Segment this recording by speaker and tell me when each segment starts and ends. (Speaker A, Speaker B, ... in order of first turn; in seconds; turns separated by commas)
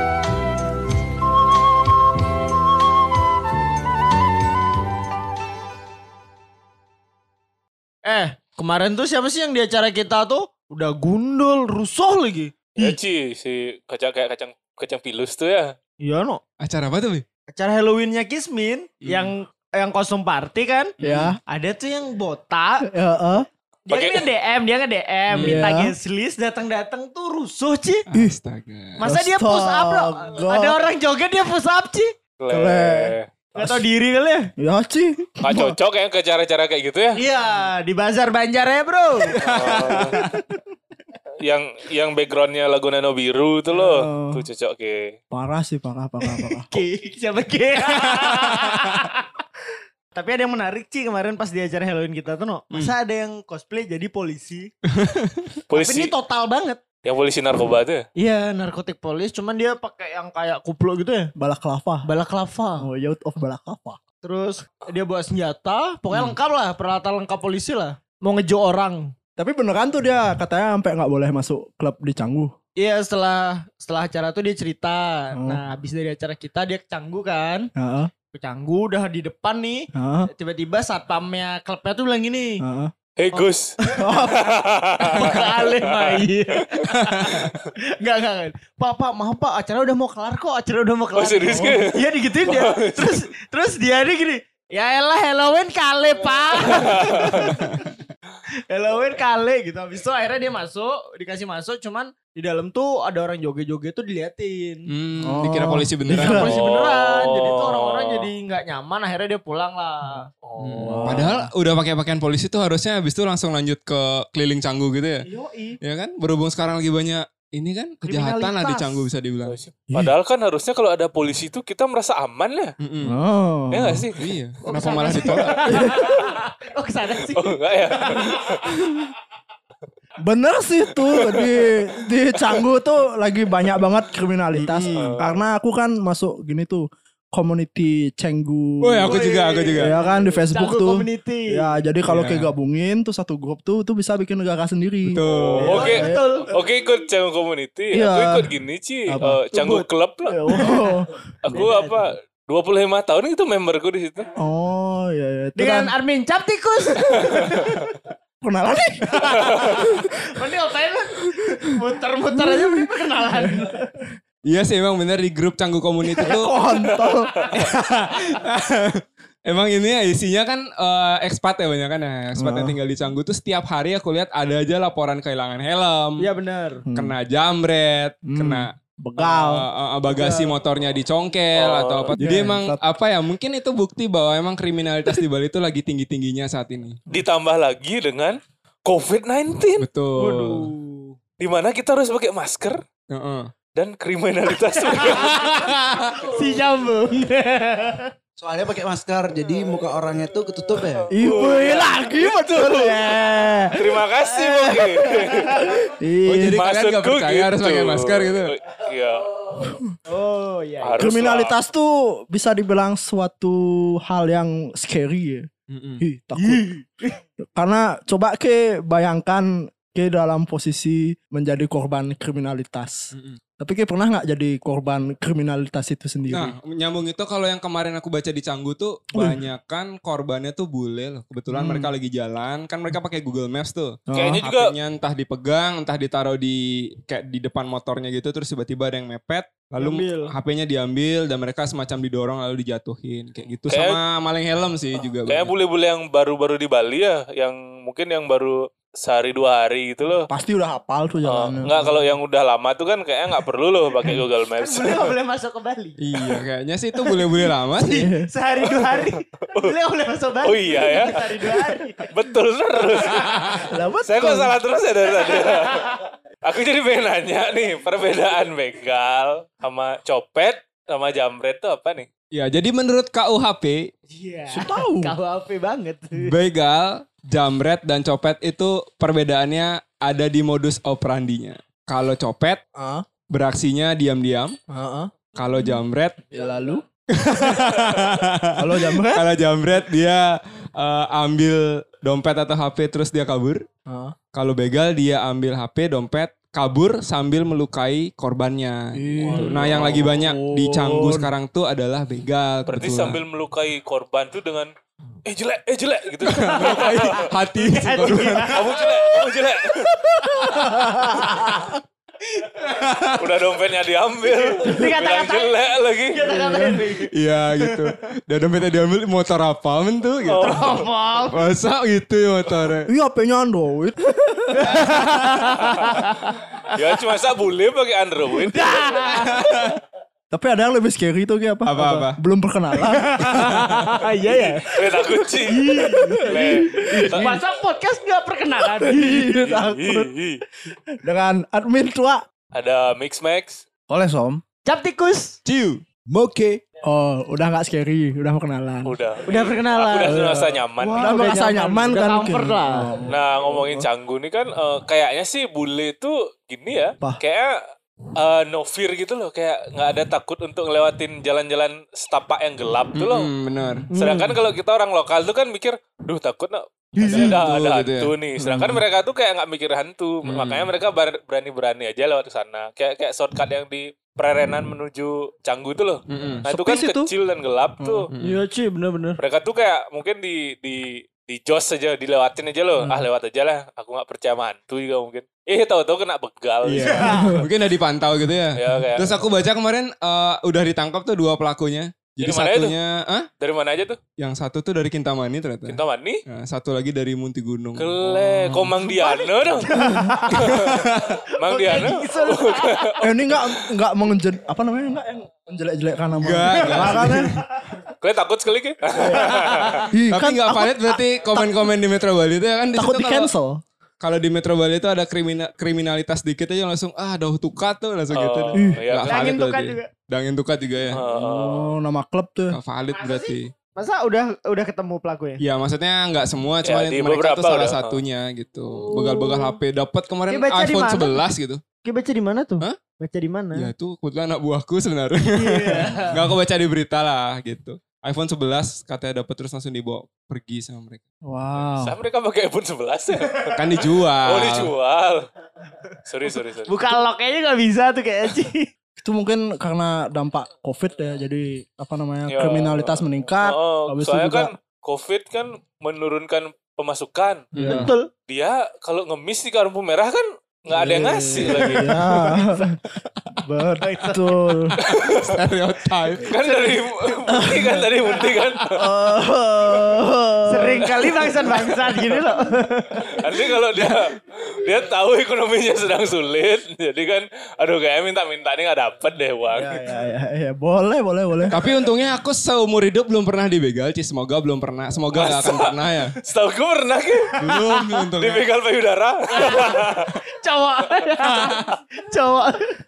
Speaker A: 8.1-12.5, Speaker B: 12.8-15.8, Speaker A: 16.0-16.4, Speaker C: 16.6-17.2, Speaker A: 17.5-20.9, Speaker C: 19.0-19.3, Speaker C: 21.0-21.4, Speaker D: 21.0-21.4, Speaker A: 21.5-22.9, Speaker D: 22.9-23.5, Speaker A: 23.9-28.1, Speaker B: 23.9-24.3, Speaker C: 25.3-25.6, Speaker D: 25.4-25.9, Speaker C: 28.1-29.1, Speaker A: 29.0-32.1, Speaker D: 29.0-30.8, Speaker B: 32.4-33.3, Speaker D: 32.5-33.8, Speaker A: 33.5-34.5, Speaker D: 34.6-35.8, Speaker B: 35.4-37.2, Speaker A: 37.1-40.0, Speaker B: 39.4-40.2, Speaker C: 39.5-40.0, Speaker D: 40.0-40.6, Speaker B: 41.4-45.1, Speaker D: 43.7-44.4, Speaker D: 45.3-46.7, Speaker A: 46.2-49.3, Speaker A: 50.1-54.7, Speaker C: 54.9-55.6, Speaker B: 55.7-56.1, Speaker A: 55.7-56.8, Speaker B: 57.0-58.1, Speaker A: 58.2-61.3, Speaker D: 61.4-62.1, Speaker A: 62.0-62.9, Speaker D: 62.8-64.0, Speaker A: 64.2-69.1, Speaker D: 69.4-72.5, Speaker A: 72.8-77.7, Speaker D: 75.3-75.6, Speaker D: 77.8-78.1, Speaker A: 78.3-82.6, Speaker D: 80.0-80.3, Speaker D: 82.6-82.9, Speaker B: 83.2-83.8, Speaker A: 83.3-84.3, Speaker D: 84.0-84.5, Speaker B: 84.3-86.8, Speaker A: 85.0-97.9, Speaker C: 86.9-87.4, Speaker B: 91.2-93.2, Speaker D: 91.5-91.8, Speaker B: 96.7-97.5, Speaker A: 98.7-104.9, Speaker C: 104.9-106.9, Speaker D: 105.2-106.6, Speaker A: 106.2-110.3, Speaker B: 106.8-108.3, Speaker B: 110.5-111.2, Speaker C: 110.6-115.3, Speaker D: 110.8-111.5, Speaker A: 115.2-115.8, Speaker C: 115.8-119.6, Speaker A: 118.0-119.0, Speaker B: 119.5-122.8, Speaker D: 119.9-120.2, Speaker C: 122.8-123.2, Speaker D: 123.0-124.0, Speaker B: 123.7-124.2, Speaker C: 124.2-125.9, Speaker A: 124.6-128.4, Speaker D: 125.7-126.1, Speaker B: 127.3-128.8, Speaker D: 130.2-146.3, Speaker B: 131.1-131.7, Speaker C: 134.5-135.2, Speaker B: 134.9-135.4, Speaker C: 138.8-139.9, Speaker A: 139.1-141.7, Speaker C: 142.1-142.5, Speaker C: 145.0-145.9, Speaker B: 145.1-150.7, Speaker A: 145.6-146.5, Speaker D: 147.9-148.5, Speaker D: 149.1-149.4, Speaker A: 149.5-149.8, Speaker D: 150.3-151.6, Speaker A: 150.6-150.9, Speaker B: 151.4-154.3, Speaker A: 151.5-152.0, Speaker D: 154.4-155.9, Speaker A: 155.6-157.8, Speaker D: 158.4-160.1, Speaker A: 159.2-164.0, Speaker B: 159.3-159.8, Speaker D: 162.3-163.7, Speaker C: 164.4-166.6, Speaker A: 166.2-167.7, Speaker D: 166.2-167.3, Speaker C: 167.6-176.3, Speaker D: 172.4-172.8, Speaker A: 176.2-176.8, Speaker D: 176.9-177.2, Speaker C: 176.9-187.0, Speaker D: 178.2-179.7, Speaker A: 180.1-180.6, Speaker B: 181.5-182.1, Speaker D: 182.2-182.8, Speaker B: 187.1-189.9, Speaker C: 189.8-190.7, Speaker A: 190.2-191.2, Speaker B: 191.4-192.8, Speaker C: 193.1-193.6, Speaker B: 193.7-195.7, Speaker A: 194.9-195.7, Speaker C: 195.1-196.3, Speaker A: 196.2-198.1, Speaker E: 198.4-201.1, Speaker D: 201.1-206.6, Speaker B: 201.2-202.0, Speaker A: 201.2-203.8, Speaker B: 203.8-205.7, Speaker A: 204.7-205.8, Speaker C: 206.2-208.6, Speaker B: 206.6-209.3, Speaker D: 209.6-209.9, Speaker A: 210.1-211.2, Speaker B: 210.8-211.6, Speaker D: 211.0-215.5, Speaker C: 215.7-216.0, Speaker D: 216.0-216.7, Speaker A: 216.4-217.2, Speaker D: 217.6-226.6, Speaker C: 223.1-223.4, Speaker C: 226.3-245.5, Speaker D: 229.2-229.4, Speaker D: 231.5-231.9, Speaker D: 234.1-234.4, Speaker B: 234.2-234.7, Speaker A: 239.8-240.3, Speaker B: 243.7-244.0, Speaker B: 245.3-250.3, Speaker D: 250.3-251.8, Speaker B: 251.2-255.1, Speaker A: 254.5-256.4, Speaker C: 256.0-258.1, Speaker A: 257.1-262.1, Speaker D: 257.9-258.3, Speaker B: 258.7-259.7, Speaker B: 260.4-261.6, Speaker B: 262.1-272.1, Speaker A: 263.1-263.5, Speaker D: 263.7-264.6, Speaker A: 265.2-266.0, Speaker C: 272.3-273.9, Speaker A: 274.1-276.3, Speaker D: 274.5-275.1, Speaker C: 276.1-282.6, Speaker D: 282.8-283.1, Speaker C: 283.3-284.6, Speaker D: 284.7-285.1, Speaker C: 285.3-286.2, Speaker D: 286.3-286.8, Speaker C: 287.1-293.7, Speaker D: 288.6-289.3, Speaker D: 293.9-294.2, Speaker C: 294.3-303.2, Speaker D: 298.9-301.3, Speaker B: 299.3-299.8, Speaker B: 302.7-304.7, Speaker B: 305.2-307.2, Speaker C: 306.2-308.8, Speaker A: 306.4-309.4, Speaker B: 308.5-310.0, Speaker A: 310.0-311.7, Speaker D: 310.4-311.6, Speaker C: 312.6-313.2, Speaker B: 313.2-316.2, Speaker A: 314.3-317.9, Speaker D: 316.3-316.8, Speaker C: 317.1-322.9, Speaker B: 320.3-320.9, Speaker A: 320.3-321.5, Speaker D: 322.9-324.8, Speaker A: 324.5-326.9, Speaker B: 325.7-325.9, Speaker B: 326.7-329.2, Speaker A: 328.5-329.7, Speaker C: 329.3-329.8, Speaker D: 330.3-333.5, Speaker C: 331.6-332.2, Speaker A: 333.0-339.4, Speaker C: 333.2-333.9, Speaker B: 334.2-337.4, Speaker D: 335.8-337.4, Speaker D: 338.6-340.1, Speaker B: 339.3-340.4, Speaker D: 340.7-342.2, Speaker B: 342.5-343.7, Speaker D: 343.9-344.4, Speaker A: 344.6-345.4, Speaker C: 345.4-345.8, Speaker E: 346.1-346.6, Speaker D: 346.9-349.0, Speaker B: 348.9-351.1, Speaker A: 349.2-350.2, Speaker D: 350.1-353.9, Speaker A: 350.8-352.9, Speaker B: 353.1-357.6, Speaker B: 358.2-363.3, Speaker C: 362.9-363.9, Speaker D: 363.8-364.4, Speaker B: 363.9-378.1, Speaker C: 367.0-368.1, Speaker D: 368.4-368.8, Speaker C: 370.2-370.7, Speaker C: 376.1-376.5, Speaker D: 376.5-377.1, Speaker D: 377.8-378.1, Speaker C: 378.1-378.4, Speaker A: 378.2-379.2, Speaker B: 379.2-387.2, Speaker C: 386.6-393.3, Speaker A: 386.8-387.3, Speaker D: 387.1-387.4, Speaker B: 388.6-389.1, Speaker B: 392.2-392.8, Speaker B: 393.4-394.0, Speaker C: 394.2-398.9, Speaker B: 395.7-396.2, Speaker B: 397.8-399.7, Speaker A: 399.0-402.9, Speaker D: 399.8-400.2, Speaker C: 400.3-401.2, Speaker B: 401.4-403.6, Speaker D: 403.0-407.3, Speaker C: 406.2-407.4, Speaker A: 406.5-407.4, Speaker B: 408.0-409.8, Speaker A: 409.1-409.9, Speaker D: 409.9-411.4, Speaker C: 410.1-413.3, Speaker D: 412.8-413.6, Speaker C: 414.0-421.0, Speaker B: 418.1-419.3, Speaker D: 418.6-418.8, Speaker A: 419.1-419.9, Speaker B: 420.9-421.7, Speaker D: 421.0-422.6, Speaker C: 422.5-423.5, Speaker A: 422.9-425.4, Speaker C: 425.4-431.6, Speaker B: 426.6-428.0, Speaker A: 428.7-429.6, Speaker A: 430.3-431.2, Speaker A: 431.8-433.7, Speaker C: 433.5-441.0, Speaker A: 435.3-436.2, Speaker D: 435.8-436.2, Speaker D: 441.3-441.9, Speaker B: 441.8-445.3, Speaker C: 443.5-444.7, Speaker B: 446.1-446.7, Speaker A: 446.7-448.7, Speaker D: 449.0-454.5, Speaker B: 452.3-457.5, Speaker C: 457.5-457.9, Speaker D: 457.6-457.9, Speaker A: 457.7-458.1, Speaker B: 458.3-462.0, Speaker D: 460.7-462.8, Speaker A: 461.5-462.8, Speaker D: 463.4-464.8, Speaker A: 463.8-464.7, Speaker B: 464.8-465.4, Speaker C: 464.9-466.3, Speaker A: 466.2-467.5, Speaker B: 466.2-468.8, Speaker D: 467.3-467.8, Speaker D: 468.8-470.9, Speaker A: 470.5-473.2, Speaker B: 470.9-471.7, Speaker B: 473.1-479.8, Speaker C: 473.8-474.0, Speaker D: 479.6-481.6, Speaker C: 481.5-486.2, Speaker B: 485.1-490.1, Speaker C: 487.4-488.4, Speaker A: 489.3-492.8